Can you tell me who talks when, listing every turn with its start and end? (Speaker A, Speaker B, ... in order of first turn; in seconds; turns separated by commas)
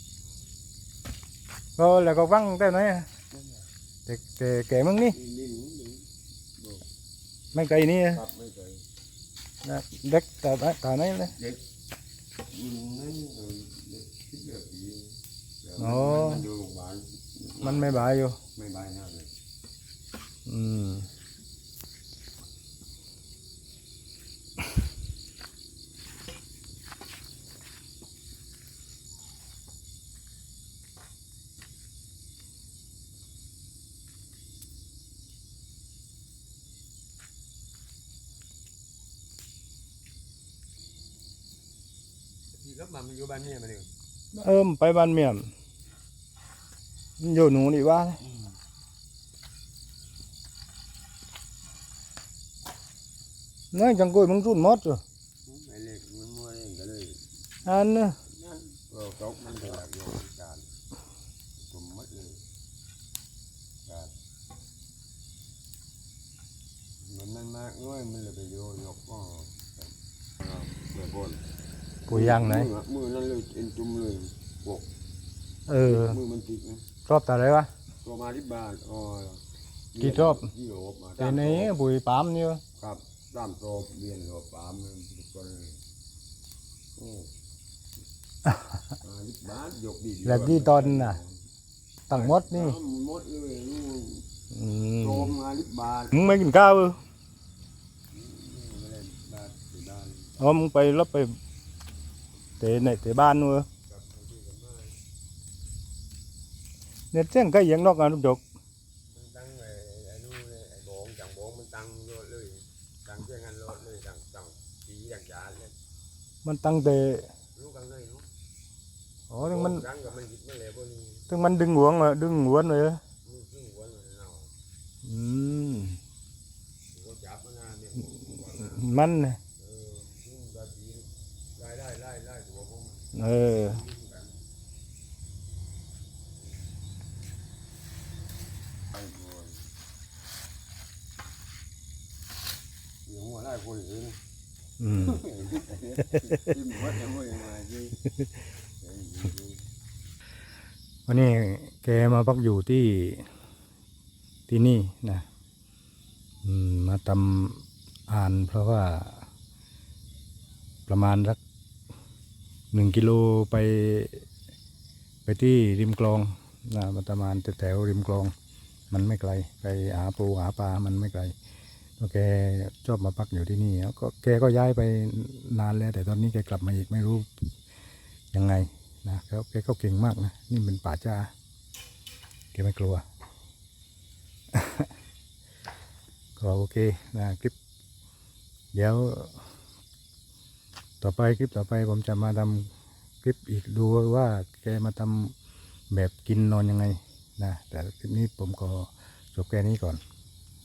Speaker A: 1.8-3.1, Speaker B: 3.3-3.6, Speaker A: 4.1-5.2, Speaker B: 5.1-6.9, Speaker A: 7.5-8.2, Speaker B: 8.1-8.8, Speaker A: 9.7-11.3, Speaker B: 12.5-19.3, Speaker A: 15.8-16.4, Speaker A: 17.6-18.4, Speaker A: 20.5-21.1, Speaker B: 42.5-43.9, Speaker A: 44.3-45.5, Speaker A: 47.2-48.2, Speaker A: 53.7-55.0, Speaker B: 55.5-57.2, Speaker A: 57.7-58.2, Speaker B: 58.2-60.7, Speaker B: 61.6-62.4, Speaker B: 63.9-64.1, Speaker B: 67.0-69.8, Speaker B: 70.4-71.4, Speaker B: 72.1-74.9, Speaker A: 72.1-72.7, Speaker A: 75.7-76.2, Speaker B: 75.8-76.9, Speaker A: 77.1-77.7, Speaker B: 78.0-79.4, Speaker B: 79.9-81.7, Speaker A: 80.0-80.5, Speaker A: 81.2-82.6, Speaker B: 82.8-85.8, Speaker B: 87.0-87.3, Speaker B: 89.0-91.4, Speaker A: 90.2-91.2, Speaker A: 92.1-92.8, Speaker B: 92.1-94.3, Speaker A: 94.5-95.3, Speaker B: 95.0-96.4, Speaker A: 96.1-97.0, Speaker B: 98.1-100.6, Speaker A: 100.4-101.3, Speaker A: 102.6-103.7, Speaker B: 103.9-105.0, Speaker A: 107.1-108.4, Speaker B: 109.1-115.7, Speaker A: 116.5-117.3, Speaker B: 117.5-118.3, Speaker A: 119.3-119.8, Speaker B: 119.4-121.3, Speaker A: 121.3-123.0, Speaker B: 123.2-124.5, Speaker A: 125.0-126.0, Speaker B: 126.9-128.9, Speaker A: 128.6-129.4, Speaker B: 129.6-134.4, Speaker A: 133.2-133.8, Speaker B: 138.9-139.7, Speaker B: 143.1-144.2, Speaker A: 144.8-145.2, Speaker B: 144.9-148.0, Speaker B: 148.8-149.6, Speaker A: 151.1-153.3, Speaker A: 154.5-155.2, Speaker A: 156.4-159.3, Speaker A: 160.9-161.4, Speaker A: 162.7-164.2, Speaker A: 165.3-168.3, Speaker A: 168.9-171.3, Speaker A: 172.0-177.5, Speaker A: 178.3-181.3, Speaker A: 182.5-183.0, Speaker A: 184.5-184.9, Speaker A: 186.4-187.5, Speaker A: 188.7-189.5, Speaker A: 191.0-192.7, Speaker A: 193.2-195.3, Speaker A: 195.9-200.0